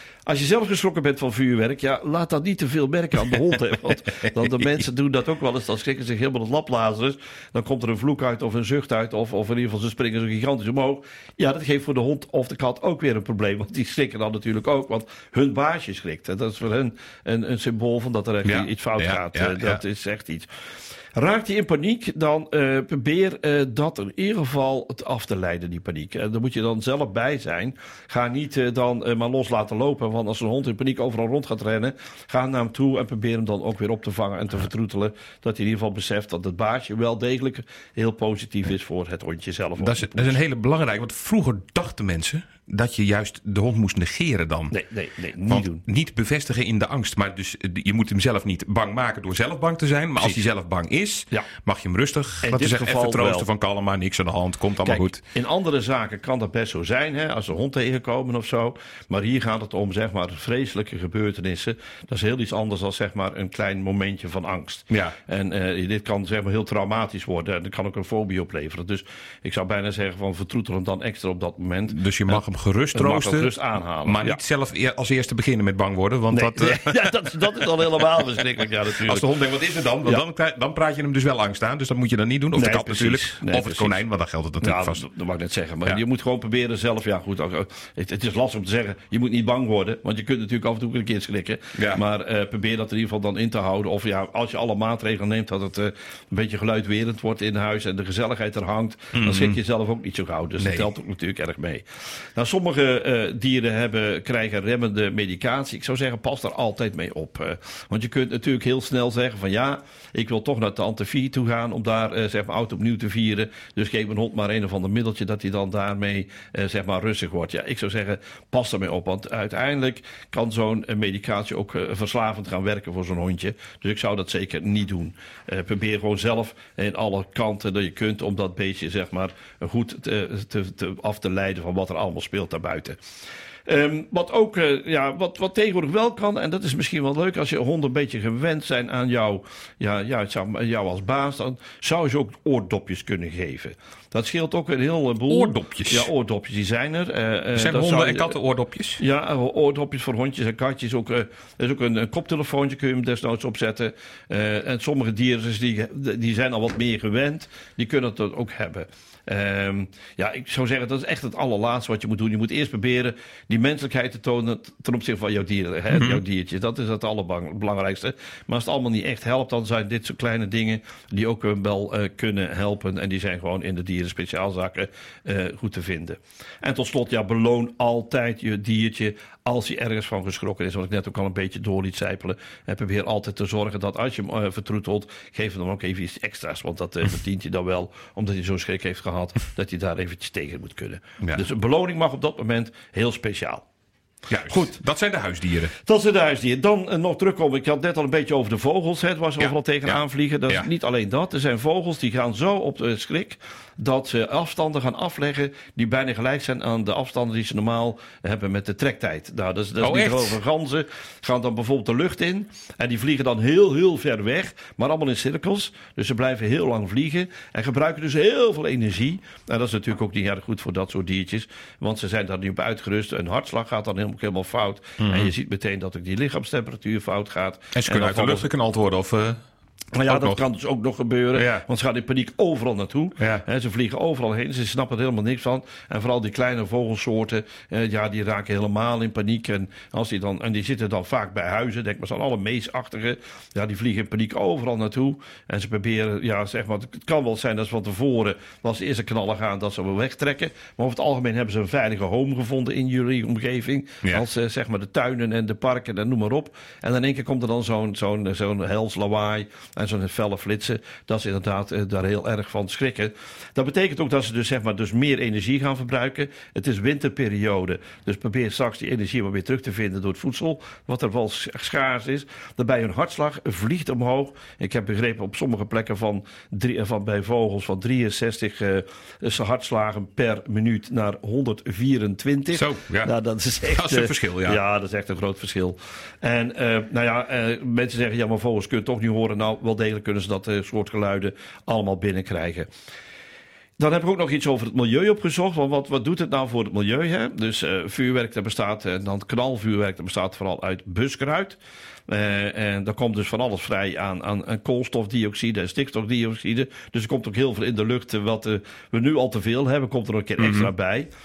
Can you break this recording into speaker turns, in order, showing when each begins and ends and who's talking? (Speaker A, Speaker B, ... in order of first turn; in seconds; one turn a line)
Speaker A: 0.2-20.5
Speaker B: 18.4-19.8
Speaker A: 21.1-40.4
Speaker B: 39.8-44.7
Speaker A: 44.7-45.8
Speaker B: 45.5-55.2
Speaker A: 52.4-53.5
Speaker A: 54.8-72.4
Speaker B: 71.9-73.5
Speaker A: 72.9-74.4
Speaker B: 74.0-77.0
Speaker A: 76.3-79.3
Speaker B: 79.0-85.0
Speaker A: 82.5-84.0
Speaker A: 84.6-133.0
Speaker B: 91.7-92.0
Speaker B: 99.1-99.6
Speaker B: 100.6-100.9
Speaker A: 133.7-148.4
Speaker B: 145.3-146.1
Speaker B: 147.5-149.0
Speaker A: 149.0-193.6
Speaker B: 165.9-166.2
Speaker B: 194.3-195.7
Speaker A: 194.5-194.7
Speaker A: 195.8-228.5
Speaker B: 199.4-200.7
Speaker B: 209.8-210.4
Speaker B: 225.0-225.3
Speaker B: 227.7-229.4
Speaker A: 229.9-292.7
Speaker B: 230.1-230.4
Speaker B: 231.3-231.6
Speaker B: 233.2-233.4
Speaker B: 282.5-284.6
Speaker A: 293.8-311.1
Speaker B: 310.4-310.7